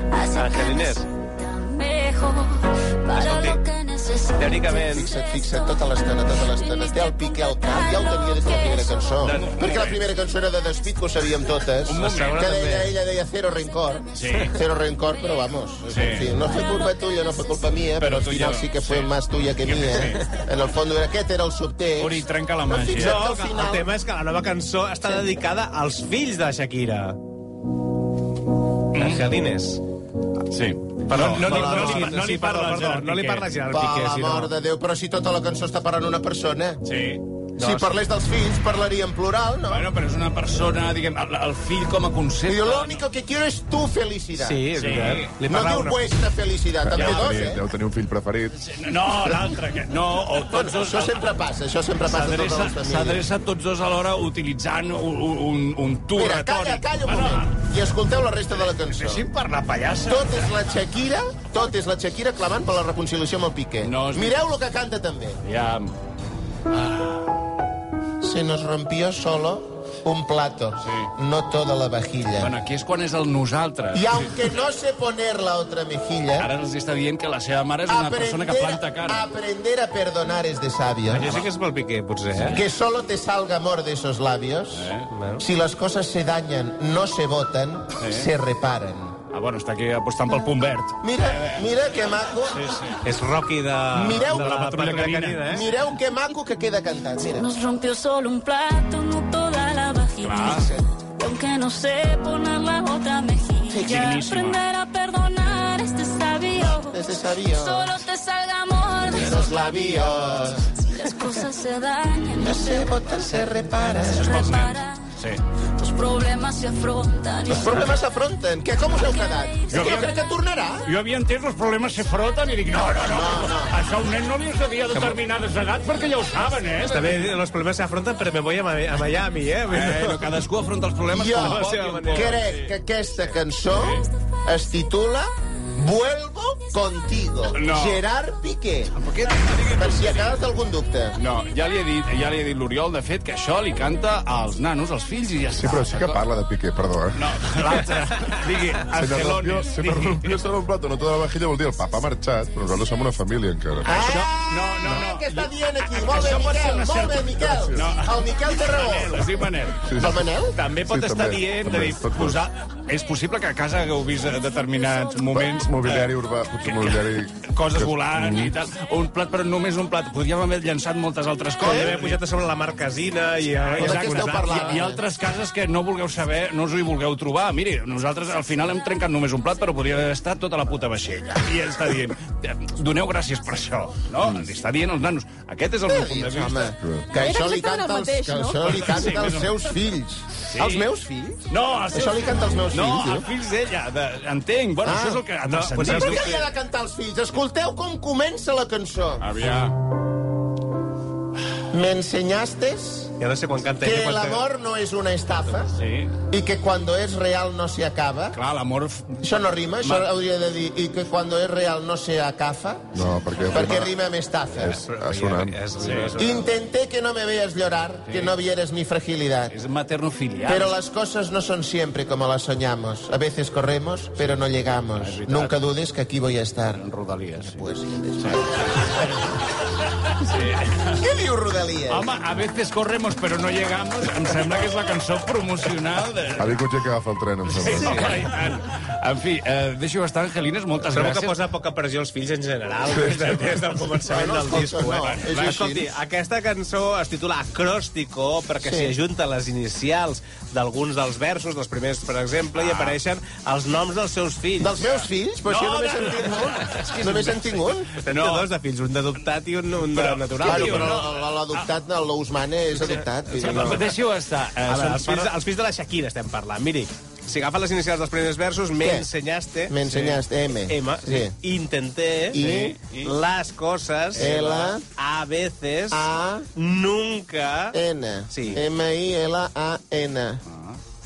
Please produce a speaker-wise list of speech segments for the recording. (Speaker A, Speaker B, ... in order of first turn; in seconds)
Speaker A: 0.1-9.4, 16.4-17.5, 97.2-109.7, 110.8-113.0, 114.0-115.1, 115.8-118.0, 119.0-119.8, 187.2-188.7
Speaker B: 0.3-1.1, 3.1-3.6, 4.3-5.1, 12.0-13.0, 22.9-27.2, 28.9-29.8, 31.1-34.5, 37.6-38.0, 44.4-46.0, 81.1-82.6, 85.1-85.4, 93.0-95.6, 124.9-125.2, 126.8-130.4, 131.4-132.4, 171.6-174.8, 195.4-196.5, 203.2-204.4, 214.8-216.5, 237.6-238.2, 240.8-254.9, 258.0-261.0, 263.3-263.9, 264.7-277.8, 278.3-278.6
Speaker C: 4.9-23.9, 31.2-32.1, 33.7-36.8, 37.6-39.9, 42.5-47.6, 50.5-53.2, 56.1-59.3, 60.0-65.4, 68.2-72.5, 73.9-76.5, 77.9-81.4, 82.5-89.2, 91.0-92.6, 93.9-94.6, 95.5-97.5, 100.4-100.9, 103.7-104.2, 106.8-108.0, 109.1-110.7, 112.4-114.4, 117.5-120.9, 123.0-123.8, 131.1-138.9, 139.7-141.2, 153.8-160.6, 171.6-171.9, 173.8-175.0, 185.8-193.3, 194.8-195.2, 195.8-199.3, 201.7-203.2, 203.8-208.4, 209.2-213.0, 213.5-214.8, 216.2-219.5, 220.5-226.8, 227.4-228.9, 230.8-232.1, 244.1-245.9, 248.6-248.9, 254.6-257.9, 260.4-263.9, 268.8-269.1, 269.7-271.4, 272.3-272.8, 274.2-274.8, 275.9-276.5, 277.7-280.4
Speaker D: 9.2-10.0, 11.9-12.4, 14.2-14.5, 15.9-16.4, 18.0-20.2, 22.0-23.3, 28.9-29.3, 30.5-33.5, 36.8-37.2, 39.7-43.0, 44.7-45.4, 47.0-47.5, 48.5-51.2, 52.1-57.6, 58.5-60.5, 63.8-64.4, 65.4-65.9, 66.7-67.2, 70.8-71.1, 72.4-74.4, 76.4-79.3, 82.3-82.6, 84.7-85.1, 88.0-88.3, 89.3-91.7, 92.5-93.0, 94.3-95.7, 100.2-100.7, 103.9-104.6, 114.1-115.4, 119.7-120.1, 120.8-127.3, 129.7-132.7, 133.7-134.1, 137.5-138.0, 138.9-140.4, 141.2-146.2, 147.2-150.4, 153.9-160.0, 160.5-166.1, 166.6-172.2, 173.6-186.7, 188.6-189.7, 190.5-190.9, 191.5-196.4, 199.2-199.8, 205.8-206.1, 208.3-209.2, 209.8-210.1, 215.8-216.2, 218.1-218.4, 219.5-220.8, 225.0-225.6, 226.7-227.7, 228.2-229.1, 230.2-230.9, 231.9-236.6, 237.5-241.4, 245.0-245.4, 252.6-253.0, 254.8-258.5, 259.9-261.7, 262.9-265.3, 272.3-273.2, 274.1-274.7
Speaker E: 46.9-48.6, 145.6-147.3, 148.9-154.2, 159.9-162.4, 165.3-168.5, 186.8-187.2, 212.9-213.9, 214.6-215.6, 236.4-238.2, 242.9-243.2